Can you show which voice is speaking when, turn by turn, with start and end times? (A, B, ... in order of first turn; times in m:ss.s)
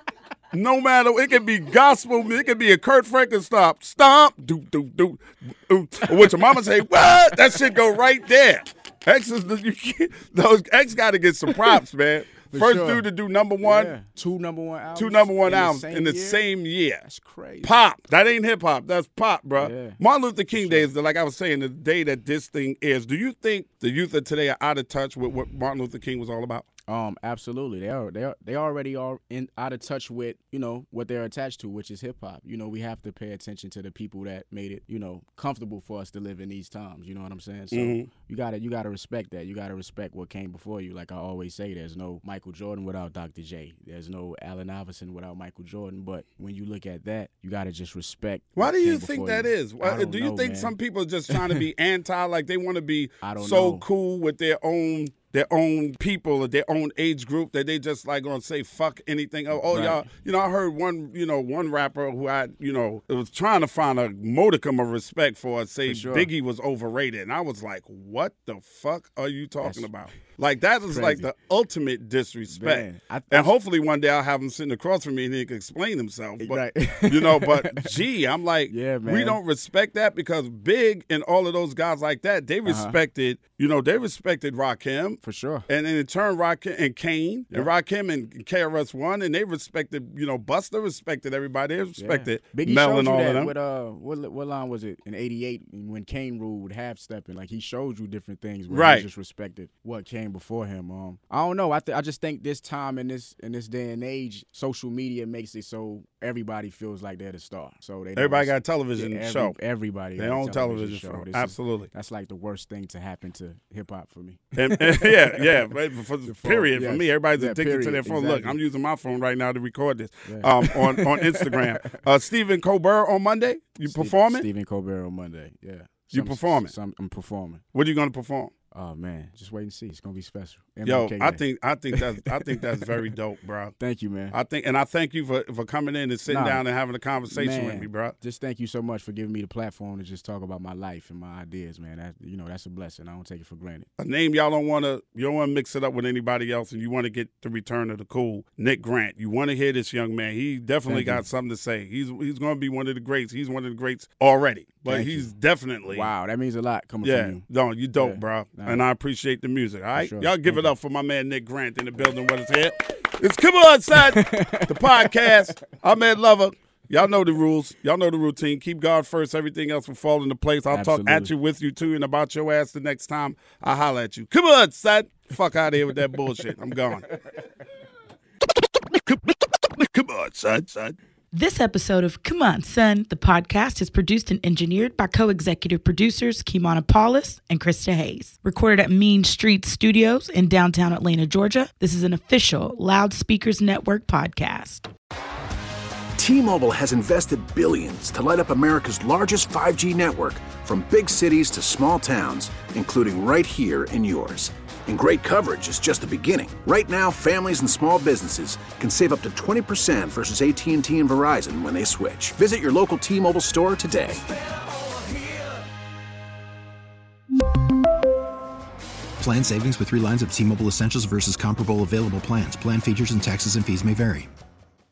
0:00.5-0:13.9 A
0:12.5-0:13.1 B
0:13.6-0:16.4 B
0:15.0-0:17.0 A
0:17.0-0:17.8 B
0:17.6-0:26.6 A
0:19.6-0:20.0 B
0:20.5-0:20.9 B
0:26.9-0:50.8 B
0:37.7-0:38.1 A
0:48.6-1:33.5 A
0:51.3-0:51.6 B
0:53.2-0:53.8 B
0:59.5-1:00.1 B
1:05.9-1:06.3 B
1:09.6-1:09.9 B
1:10.9-1:11.3 B
1:12.5-1:13.5 B
1:16.4-1:18.0 B
1:18.7-1:19.4 B
1:22.7-1:23.0 B
1:25.2-1:25.7 B
1:32.0-1:55.6 B
1:38.7-1:39.1 A
1:48.2-1:49.6 A
1:50.2-1:51.9 A
1:54.6-2:04.5 A
1:56.3-1:58.6 B
2:00.3-2:02.0 B
2:03.9-2:07.6 B
2:06.1-2:06.7 A
2:07.8-2:08.5 A
2:08.7-2:11.4 B
2:10.8-2:13.8 A
2:11.9-2:12.9 B
2:13.8-2:14.4 B
2:14.3-2:18.1 A
2:16.3-2:16.6 B
2:17.3-2:23.9 B
2:24.0-2:36.1 A
2:30.9-2:31.2 B
2:34.9-2:35.3 B
2:35.9-2:37.4 B
2:37.0-2:57.1 A
2:38.0-2:38.8 B
2:40.0-2:40.7 B
2:44.0-2:45.4 B
2:50.7-2:51.3 B
2:58.9-3:01.0 A
3:01.3-3:14.9 C
3:16.2-3:34.3 D
3:39.2-3:44.3 E